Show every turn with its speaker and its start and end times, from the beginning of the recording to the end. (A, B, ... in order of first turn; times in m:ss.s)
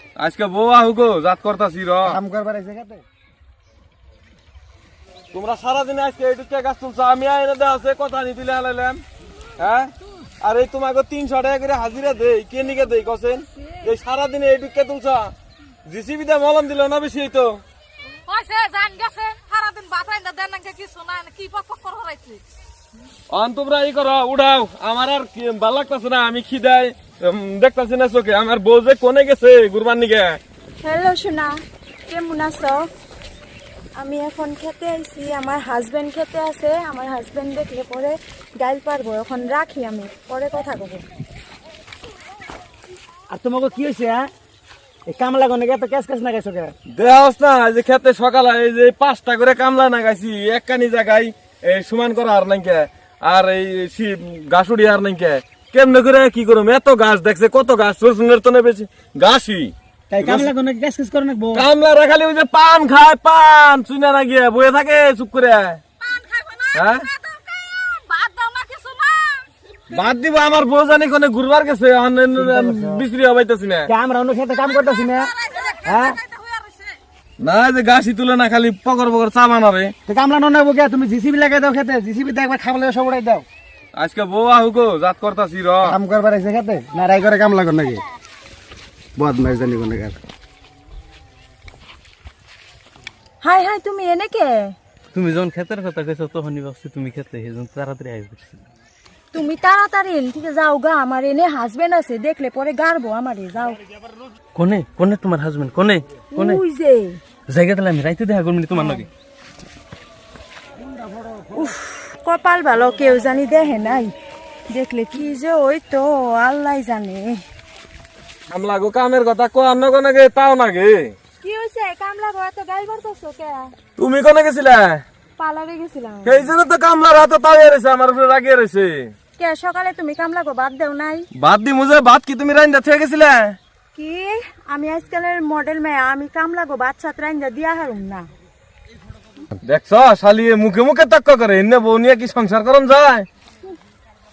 0:00.2-0:02.2 A
0:02.1-0:03.0 B
0:05.3-0:09.0 A
0:09.6-0:15.3 A
0:15.9-0:17.6 A
0:18.3-0:22.4 C
0:23.3-0:30.4 A
0:30.8-0:32.9 D
0:34.0-0:41.0 D
0:43.3-0:44.3 B
0:45.1-0:46.7 B
0:46.9-1:00.5 A
1:00.1-1:01.7 B
1:01.5-1:05.8 A
1:06.0-1:09.4 C
1:06.7-1:07.1 A
1:09.9-1:13.9 A
1:12.4-1:13.0 B
1:13.9-1:15.3 B
1:14.8-1:17.0 C
1:15.8-1:16.2 B
1:17.4-1:19.9 A
1:20.1-1:23.4 B
1:24.0-1:26.0 A
1:25.8-1:28.0 B
1:29.2-1:30.2 B
1:33.4-1:34.8 D
1:35.1-1:38.6 E
1:39.3-1:43.8 D
1:44.6-1:46.6 E
1:46.3-1:47.2 D
1:47.5-1:49.1 E
1:51.1-1:51.6 B
1:51.6-1:54.1 D
1:54.7-1:57.4 D
1:58.5-2:01.2 A
2:01.4-2:03.7 D
2:04.0-2:05.0 A
2:05.4-2:06.5 D
2:06.2-2:09.1 A
2:09.4-2:11.3 D
2:11.4-2:13.6 A
2:14.0-2:18.3 D
2:19.6-2:23.3 A